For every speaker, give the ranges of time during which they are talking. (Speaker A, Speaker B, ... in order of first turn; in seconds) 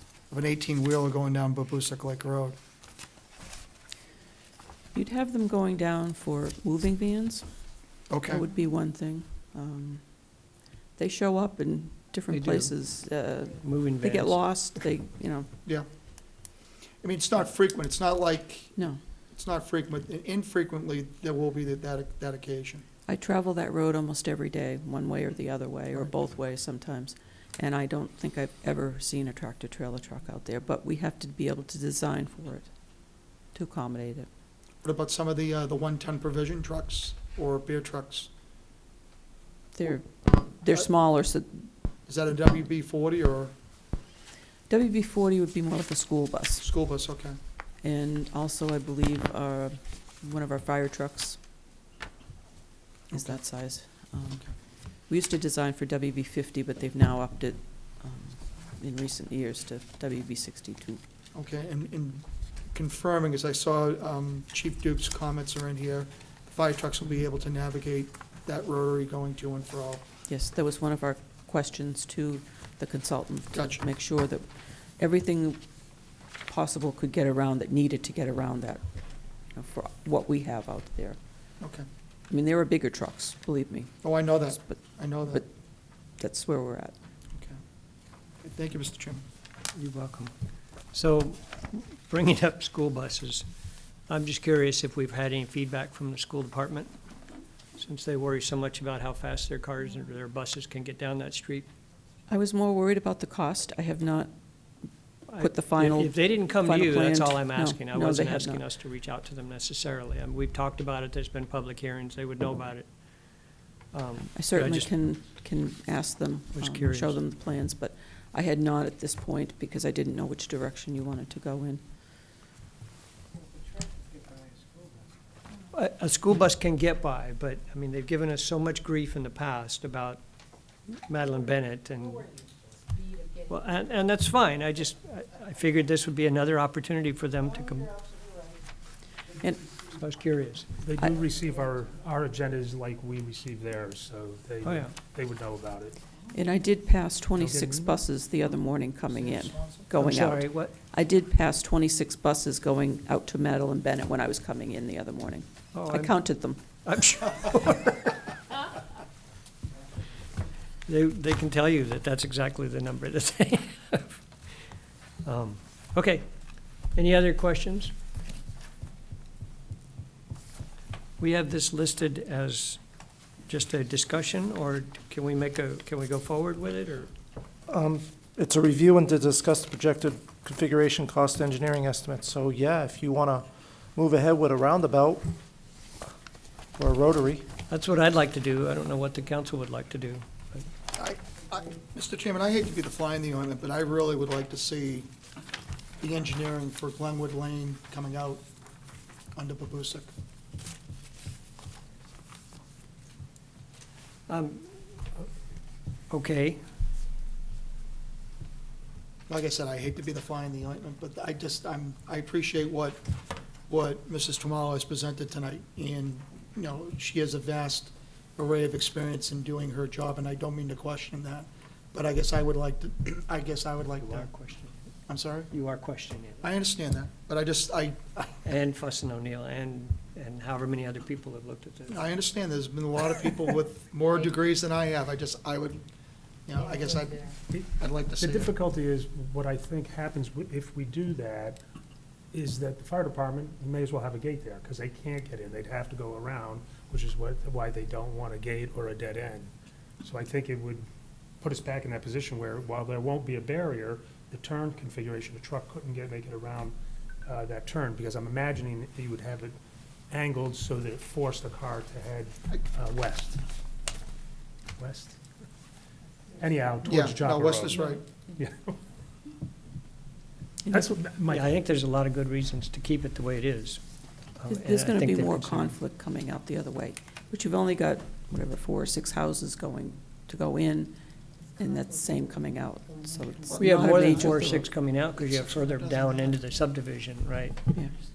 Speaker A: 0.3-2.6, 8.1-8.4, 17.0-22.8, 34.8-38.3, 42.1-43.5, 46.6-47.4, 53.1-53.4, 61.4-70.0, 73.5-73.8, 81.6-81.8, 84.0-85.4, 88.4-89.2, 149.1-149.9, 190.9-195.1, 196.0-198.4, 199.3-200.1, 209.3-213.0, 213.7-224.3, 225.1-225.5, 226.4-228.3, 231.9-235.8, 236.5-238.5, 266.9-268.0, 285.2-286.4
Speaker B: 4.9-15.5, 23.1-34.3, 39.8-41.7, 44.7-46.7, 47.8-51.4, 53.1-61.0, 70.3-74.5, 75.0-78.8, 79.5-81.2, 82.3-87.0, 102.3-104.8, 105.4-108.6, 114.3-121.8, 139.4-139.7, 146.3-156.6, 274.5-280.9, 281.6-284.7
Speaker C: 12.3-12.7, 13.6-14.4, 89.8-90.3, 90.9-93.5, 94.1-96.9, 97.8-101.7, 105.3-115.0, 116.5-117.2, 125.7-130.2, 130.9-132.4, 133.4-138.1, 139.8-140.7, 144.6-144.9, 149.9-150.7, 155.7-156.2, 156.8-158.3, 160.9-164.5, 165.2-167.9, 171.2-172.9, 173.5-177.1, 187.7-190.6, 204.3-204.7, 206.1-206.6, 224.0-224.8, 225.5-226.5, 228.4-232.0, 271.3-273.8, 274.4-275.8, 283.5-287.8
Speaker D: 140.8-146.0, 147.4-148.0, 238.2-241.6, 242.3-249.5, 250.0-250.9, 251.4-256.8, 257.3-259.6, 260.1-263.4, 264.8-265.2, 266.4-268.8, 270.7-271.5
Speaker E: 177.7-185.3, 186.8-187.5